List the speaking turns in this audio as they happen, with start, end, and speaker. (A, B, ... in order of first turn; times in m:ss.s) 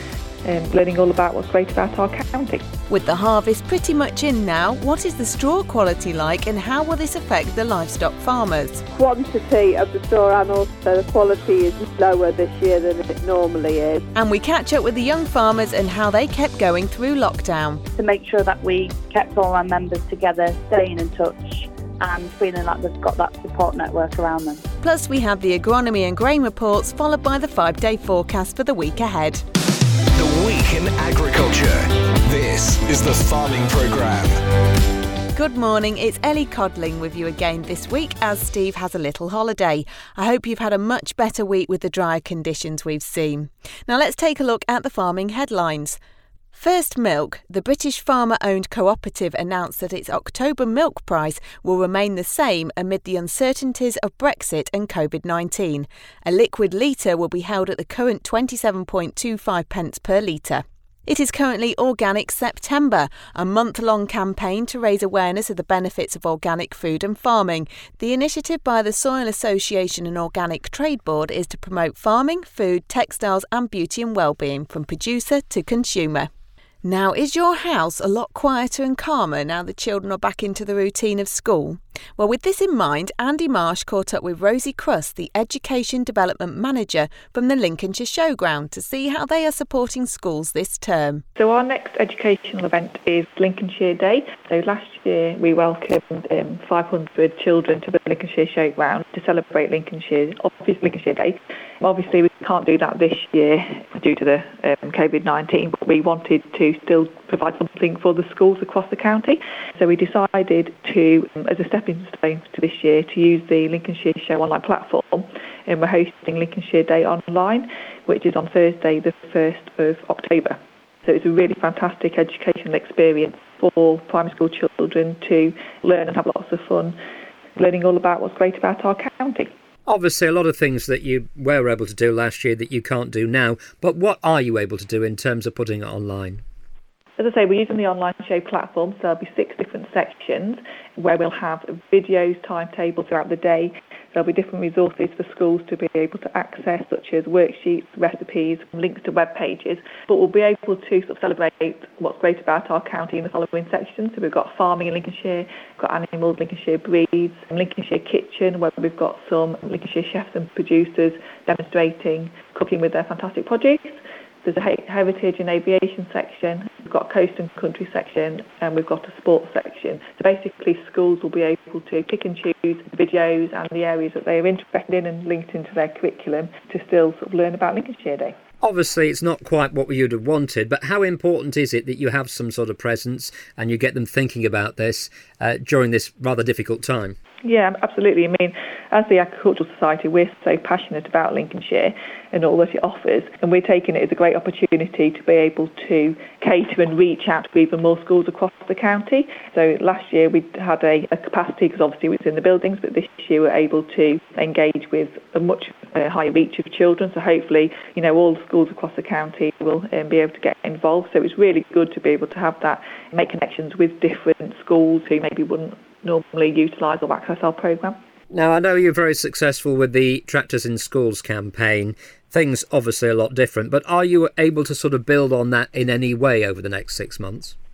0:00.4-0:02.6 A
0:02.9-0:08.8 B
0:08.9-0:14.0 C
0:14.1-0:17.8 B
0:18.0-0:24.6 D
0:24.8-0:29.4 B
0:30.2-0:34.4 E
0:35.3-0:46.0 B
0:46.5-1:16.3 B
1:16.8-1:31.2 B
1:31.4-2:07.0 A
2:07.6-2:09.5 A
2:09.9-2:16.4 F
2:17.2-2:58.4 A
2:58.6-3:07.2 F
3:07.4-3:38.0 A
3:38.3-3:47.5 F